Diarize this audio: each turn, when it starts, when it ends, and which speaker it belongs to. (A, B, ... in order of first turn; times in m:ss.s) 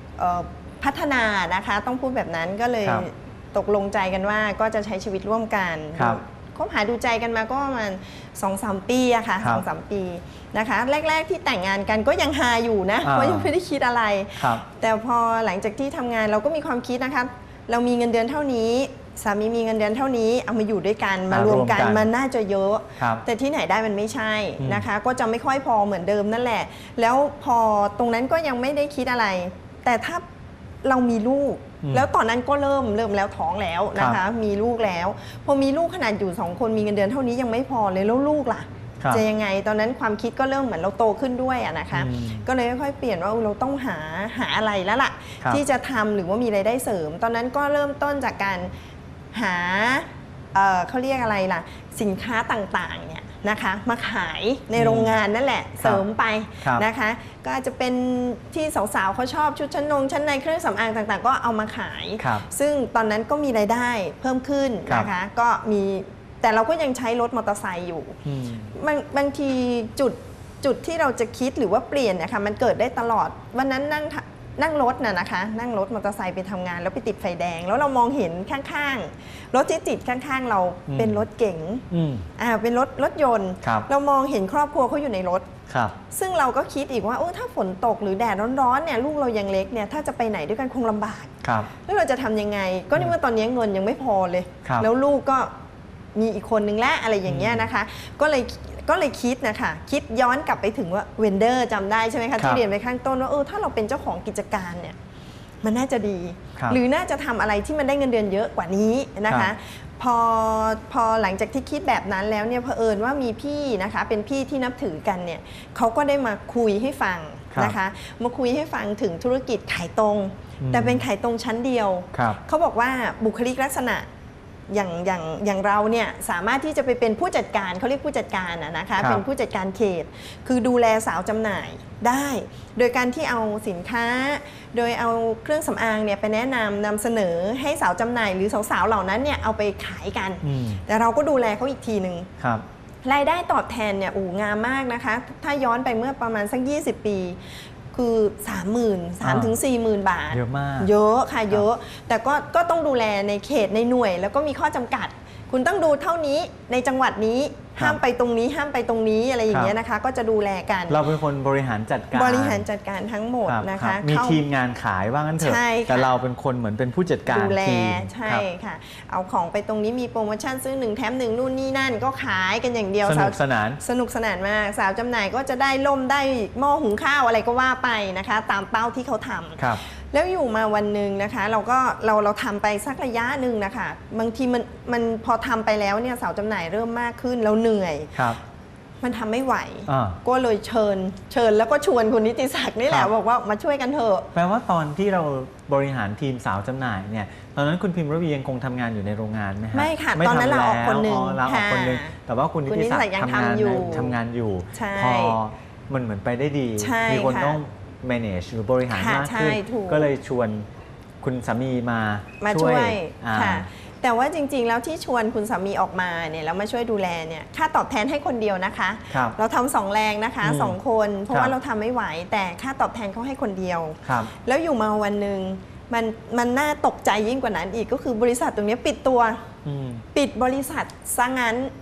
0:00.2-0:30.2 A
0:13.0-0:13.5 B
0:14.4-0:14.6 B
0:21.3-0:22.1 B
0:23.0-0:23.2 B
0:24.6-0:24.8 B
0:30.8-0:48.7 A
0:41.9-0:42.4 B
0:49.3-1:08.2 A
0:54.7-0:55.2 B
1:02.2-1:02.4 B
1:08.2-1:08.7 B
1:08.7-1:21.8 A
1:20.9-1:21.2 B
1:21.9-1:22.3 B
1:22.4-1:25.5 A
1:23.6-1:23.9 B
1:25.7-1:26.0 B
1:26.1-1:35.5 A
1:31.4-1:31.7 B
1:36.1-1:45.0 A
1:37.2-1:37.7 B
1:45.6-2:04.0 A
1:57.5-1:57.8 B
2:00.6-2:01.0 B
2:02.1-2:02.4 B
2:04.7-2:22.3 A
2:09.0-2:09.2 B
2:20.4-2:20.8 B
2:22.4-2:22.6 B
2:23.0-2:27.4 A
2:27.9-2:41.0 A
2:29.2-2:29.5 B
2:30.3-2:30.9 B
2:40.9-2:42.6 B
2:42.1-2:44.4 A
2:43.4-2:48.4 B
2:45.4-2:46.1 A
2:47.2-3:08.2 A
2:53.0-2:53.8 B
3:08.1-3:08.4 B
3:09.0-3:14.3 A
3:09.9-3:10.2 B
3:14.3-3:30.6 B
3:19.7-3:22.1 A
3:22.7-3:24.2 A
3:24.7-3:25.4 A
3:26.8-3:27.6 A
3:28.9-3:30.1 A
3:31.2-3:33.6 B
3:32.4-3:49.4 A
3:39.1-3:39.4 B
3:40.4-3:40.8 B
3:44.0-3:44.3 B
3:49.6-3:50.0 B
3:50.1-3:51.7 A